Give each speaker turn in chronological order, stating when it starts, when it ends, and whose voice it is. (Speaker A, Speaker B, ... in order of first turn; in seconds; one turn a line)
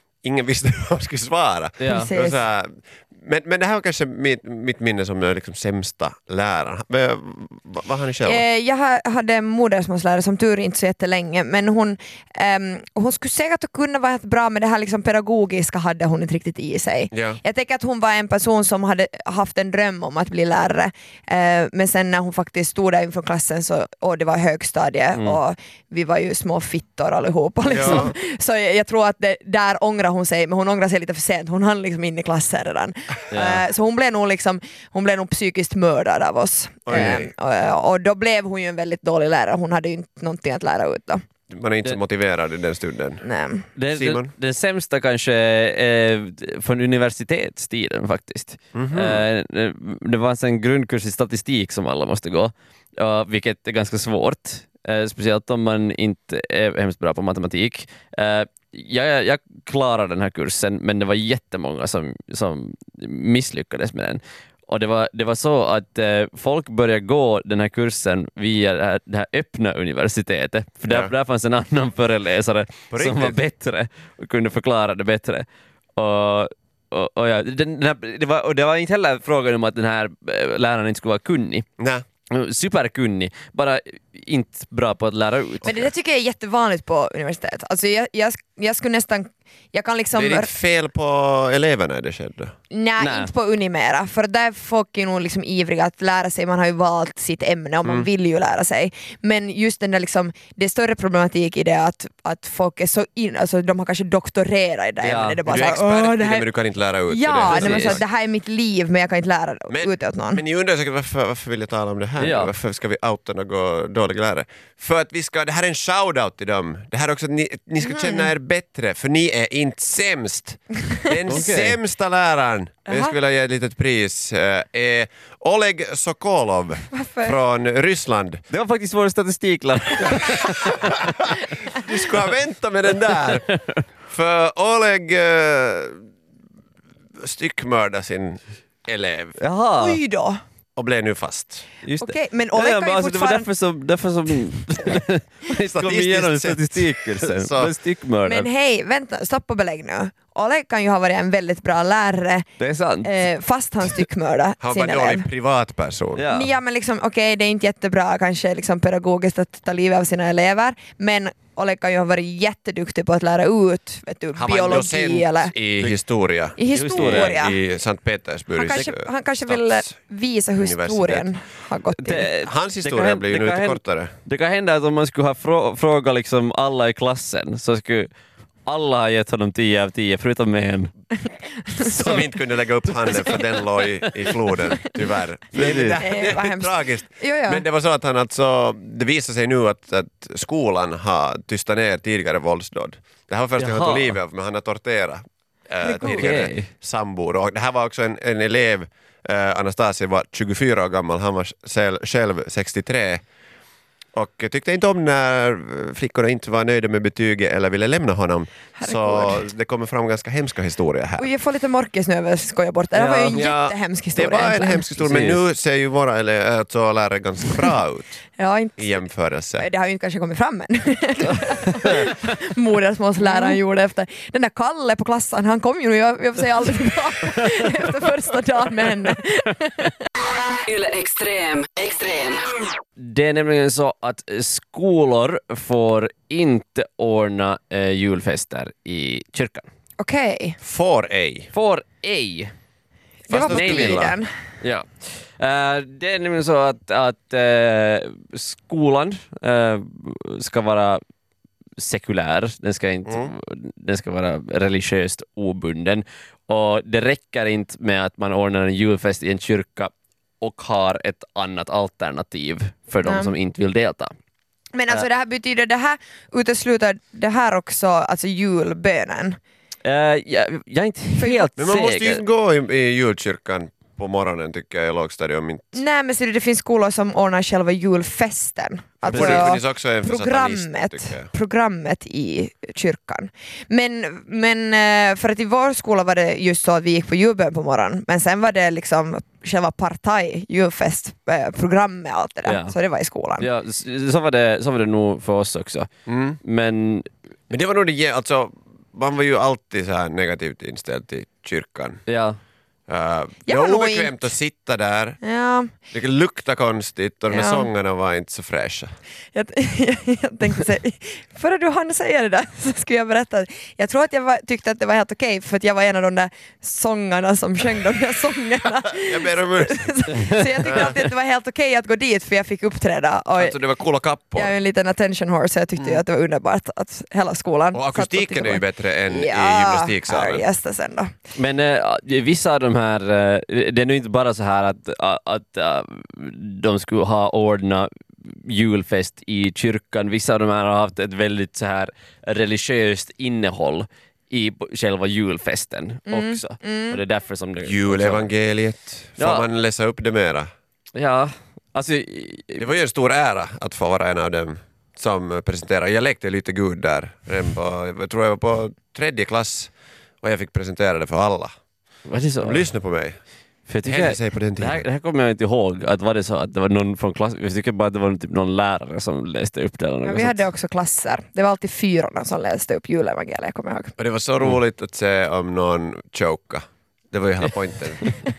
Speaker A: 0.2-8.4
Speaker B: 1.8-2.1
Speaker C: 1.9-2.4
Speaker C: 8.2-41.2
Speaker A: 17.1-17.4
Speaker A: 27.7-28.1
Speaker B: 33.3-33.6
Speaker A: 36.9-37.3
Speaker A: 41.5-43.2
Speaker C: 43.2-43.7
Speaker B: 43.8-75.5
Speaker A: 43.9-44.3
Speaker A: 48.8-49.2
Speaker A: 70.9-71.1
Speaker A: 72.9-73.4
Speaker B: 76.0-81.7
Speaker A: 81.8-82.0
Speaker B: 82.3-85.8
Speaker C: 85.6-90.5
Speaker A: 90.2-92.5
Speaker C: 92.7-106.5
Speaker B: 93.0-93.3
Speaker B: 105.0-105.6
Speaker A: 105.5-108.0
Speaker C: 107.1-110.4
Speaker B: 107.5-108.0
Speaker A: 109.7-128.4
Speaker B: 112.2-112.5
Speaker C: 117.8-118.3
Speaker B: 121.3-121.8
Speaker C: 122.9-123.1
Speaker C: 126.9-127.3
Speaker B: 128.5-131.0
Speaker A: 130.1-133.5
Speaker B: 133.3-133.8
Speaker A: 134.1-136.1
Speaker A: 137.2-139.4
Speaker B: 139.4-140.0
Speaker C: 139.8-140.4
Speaker A: 140.8-141.7
Speaker B: 141.8-148.5
Speaker C: 142.0-143.5
Speaker A: 145.6-147.7
Speaker C: 148.3-152.5
Speaker B: 152.6-153.1
Speaker C: 153.0-155.3
Speaker A: 154.6-156.3
Speaker B: 156.2-156.5
Speaker C: 156.3-165.5
Speaker A: 164.4-169.9
Speaker C: 166.6-167.6
Speaker B: 166.7-167.4
Speaker C: 168.6-172.3
Speaker A: 170.6-171.3
Speaker B: 172.0-178.1
Speaker A: 172.3-174.1
Speaker B: 178.7-180.9
Speaker C: 181.7-182.0
Speaker A: 181.8-203.2
Speaker B: 181.9-182.2
Speaker B: 183.1-183.4
Speaker B: 184.0-184.5
Speaker B: 185.5-186.0
Speaker C: 186.0-187.6
Speaker B: 193.6-194.2
Speaker C: 195.8-196.4
Speaker B: 196.0-196.7
Speaker A: 204.1-211.3
Speaker C: 208.8-209.4
Speaker C: 211.2-215.0
Speaker B: 212.9-213.5
Speaker A: 213.3-218.2
Speaker B: 215.1-215.4
Speaker C: 218.4-219.0
Speaker A: 218.8-219.7
Speaker C: 219.6-230.0
Speaker D: 230.2-232.7
Speaker B: 233.0-239.7
Speaker C: 240.0-240.6
Speaker A: 240.6-241.5
Speaker B: 241.5-242.5
Speaker C: 243.3-244.3
Speaker A: 243.3-244.2
Speaker B: 243.4-244.1
Speaker B: 244.6-251.0
Speaker B: 251.8-264.1
Speaker A: 253.1-253.3
Speaker C: 263.0-263.3
Speaker C: 264.7-269.4
Speaker B: 269.8-272.2
Speaker C: 271.2-271.5
Speaker A: 271.6-275.8
Speaker C: 275.7-293.5
Speaker A: 279.0-281.3
Speaker B: 279.1-279.5
Speaker B: 292.5-292.8
Speaker B: 293.4-295.9
Speaker A: 296.1-296.4
Speaker B: 296.4-297.1
Speaker A: 297.5-302.0
Speaker B: 302.1-302.4
Speaker A: 302.9-305.2
Speaker C: 303.5-304.1
Speaker C: 305.2-305.7
Speaker A: 305.9-308.9
Speaker C: 307.3-307.7
Speaker C: 309.3-323.6
Speaker A: 318.9-320.1
Speaker B: 320.1-320.9
Speaker A: 320.6-320.9
Speaker A: 323.4-324.5
Speaker C: 324.4-331.1
Speaker A: 327.7-330.4
Speaker B: 331.4-348.3
Speaker C: 346.1-347.0
Speaker A: 347.6-350.5
Speaker B: 349.2-349.5
Speaker B: 351.0-352.6
Speaker A: 352.6-361.5
Speaker B: 362.1-362.7
Speaker A: 362.4-363.2
Speaker B: 363.7-370.4
Speaker A: 363.8-364.8
Speaker C: 370.0-373.9
Speaker A: 374.0-378.2